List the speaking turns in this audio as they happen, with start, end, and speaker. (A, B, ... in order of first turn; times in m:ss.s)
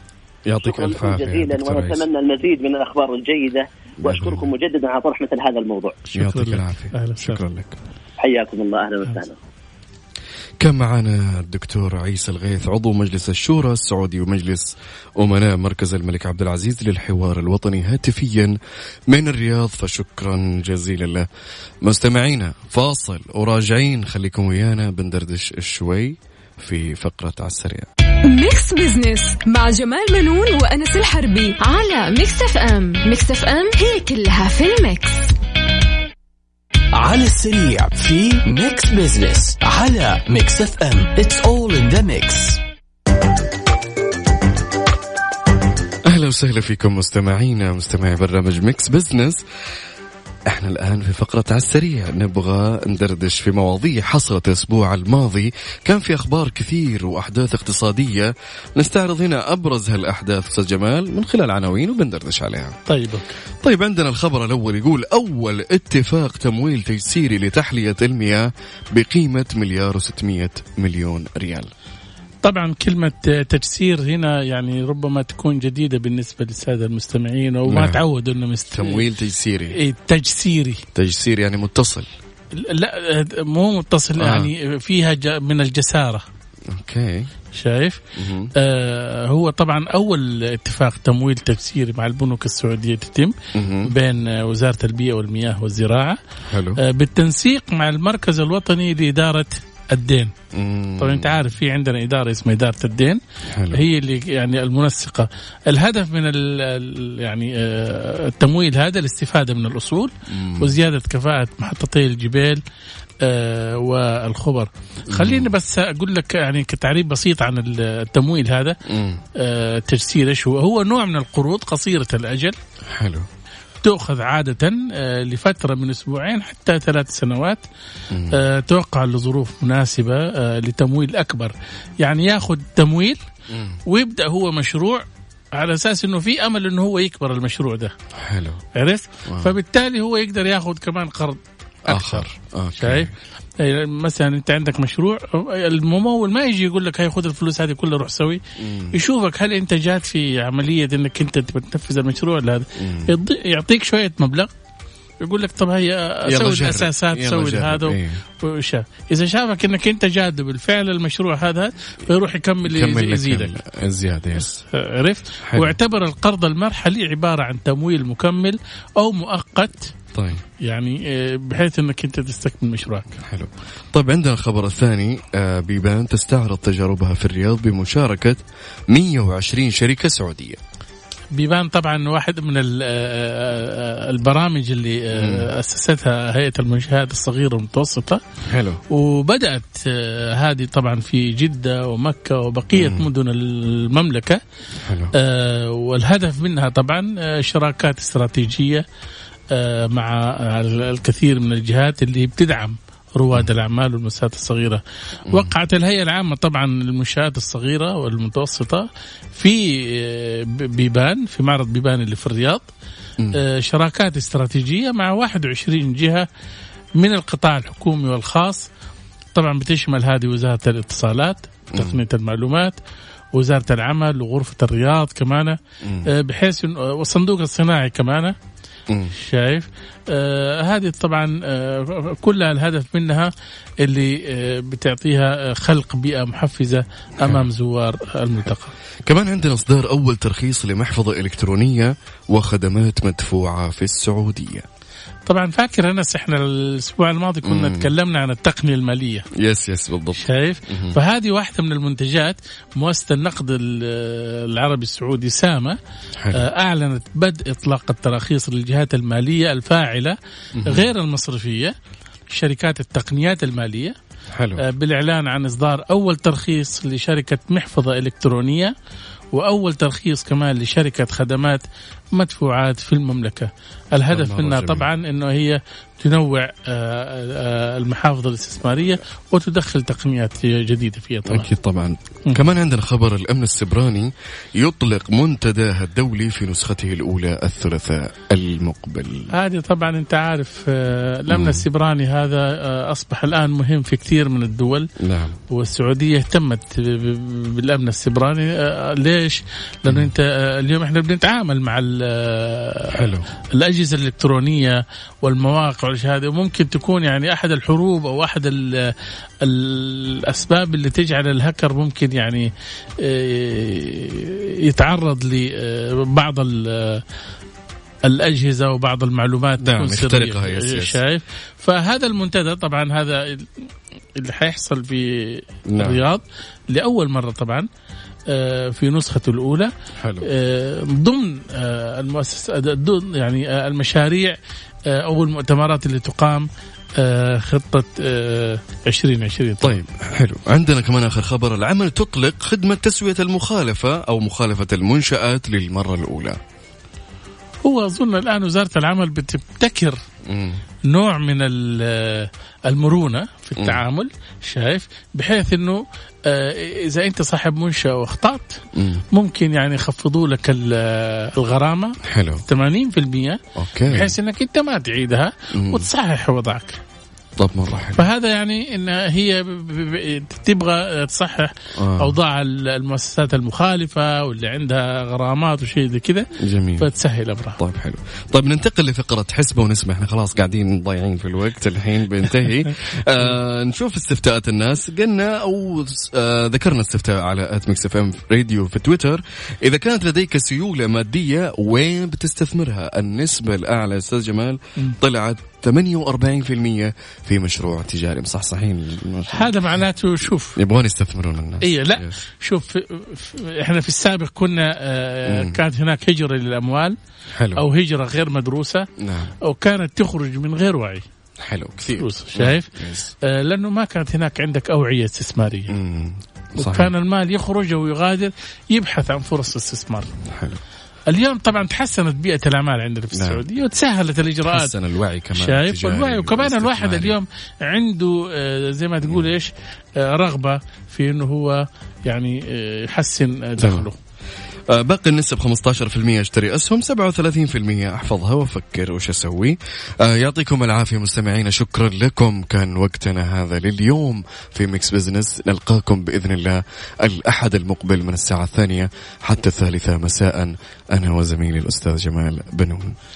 0:00.4-0:02.0 A
0:00.6-0:06.0 B
0:04.0-0:04.5 A
0:06.1-0:07.4 C
0:06.1-0:07.8 A
0:08.2-0:09.4 B
0:10.6-0:18.6 A
0:19.1-0:21.2 A
0:21.8-0:27.9 A
0:28.2-0:35.3 D
0:36.9-0:42.6 E
0:46.0-0:49.4 A
0:50.5-1:02.8 A
1:02.9-1:03.3 C
1:03.6-1:11.7 A
1:12.4-1:19.0 C
1:17.7-1:18.0 A
1:18.7-1:19.8 A
1:19.7-1:20.8 C
1:20.9-1:22.1 A
1:22.5-1:26.2 C
1:24.2-1:24.5 A
1:26.7-1:27.3 A
1:27.5-1:28.0 C
1:28.2-1:28.5 A
1:28.6-1:36.2 C
1:33.5-1:33.9 A
1:36.5-1:36.8 A
1:36.8-1:40.3 C
1:40.5-1:41.4 A
1:41.0-1:43.2 C
1:43.5-1:43.8 A
1:43.7-1:52.6 C
1:50.3-1:50.7 A
1:53.2-1:58.8 C
1:55.1-1:55.5 A
1:58.9-1:59.2 A
1:59.4-2:02.6 C
2:02.9-2:03.3 A
2:03.8-2:07.6 C
2:08.1-2:08.4 A
2:08.3-2:13.2 C
2:13.5-2:13.8 A
2:13.8-2:17.9 C
2:18.1-2:18.6 A
2:18.7-2:28.4 C
2:19.2-2:19.5 A
2:21.8-2:23.1 A
2:28.6-2:29.0 A
2:28.9-2:34.5 C
2:32.8-2:33.1 A
2:35.2-2:43.5 C
2:36.3-2:38.2 A
2:42.6-2:44.6 A
2:44.7-2:49.9 C
2:45.4-2:45.7 A
2:50.1-2:50.4 A
2:50.6-2:53.2 C
2:53.2-3:00.6 A
3:01.3-3:08.2 C
3:05.1-3:05.5 A
3:08.4-3:08.8 A
3:08.9-3:14.4 C
3:12.7-3:13.0 A
3:14.8-3:15.1 A
3:15.1-3:18.8 C
3:19.5-3:32.7 C
3:25.3-3:25.5 A
3:33.3-3:36.2 C
3:37.0-3:38.6 C
3:39.3-3:42.8 C
3:41.7-3:42.0 A
3:43.3-3:48.3 C
3:45.8-3:46.1 A
3:48.9-3:49.1 A
3:49.2-3:58.7 C
3:59.0-4:04.6 A
4:05.2-4:09.3 C
4:07.4-4:07.9 A
4:09.3-4:11.0 A
4:10.2-4:15.8 C
4:16.2-4:16.5 A
4:16.3-4:21.7 C
4:20.6-4:20.9 A
4:22.3-4:24.0 C
4:24.3-4:24.6 A
4:24.6-4:28.7 C
4:29.3-4:41.4 C
4:34.1-4:34.9 A
4:41.2-4:49.3 A
4:49.3-4:54.9 C
4:51.3-4:51.6 A
4:55.0-4:55.4 A
4:55.5-5:12.5 C
5:02.9-5:03.3 A
5:13.0-5:17.0 C
5:18.0-5:27.7 C
5:19.6-5:21.0 A
5:25.7-5:26.0 A
5:28.3-5:29.7 C
5:30.0-5:30.3 A
5:30.2-5:39.8 C
5:39.6-5:46.4 A
5:47.6-5:50.0 C
5:50.2-5:50.6 A
5:50.9-5:58.6 C
5:53.6-5:53.8 A
5:58.8-5:59.0 A
5:59.1-6:06.8 C
6:02.0-6:02.4 A
6:03.5-6:04.1 A
6:05.5-6:05.9 A
6:07.4-6:08.0 A
6:08.0-6:17.6 C
6:11.8-6:12.2 A
6:16.4-6:16.9 A
6:17.6-6:39.7 A
6:39.3-6:40.6 C
6:40.6-6:42.2 A
6:41.6-6:47.0 C
6:45.2-6:45.6 A
6:47.3-6:47.6 A
6:47.6-6:48.9 C
6:49.0-6:49.3 A
6:49.4-6:51.0 C
6:51.4-6:53.1 A
6:51.9-6:52.7 C
6:53.2-6:55.8 C
6:55.7-6:56.9 A
6:56.6-7:00.1 C
7:00.2-7:00.6 A
7:01.1-7:04.7 C
7:03.1-7:03.4 A
7:04.4-7:07.1 A
7:05.3-7:14.0 C
7:13.6-7:13.8 A
7:14.7-7:33.0 A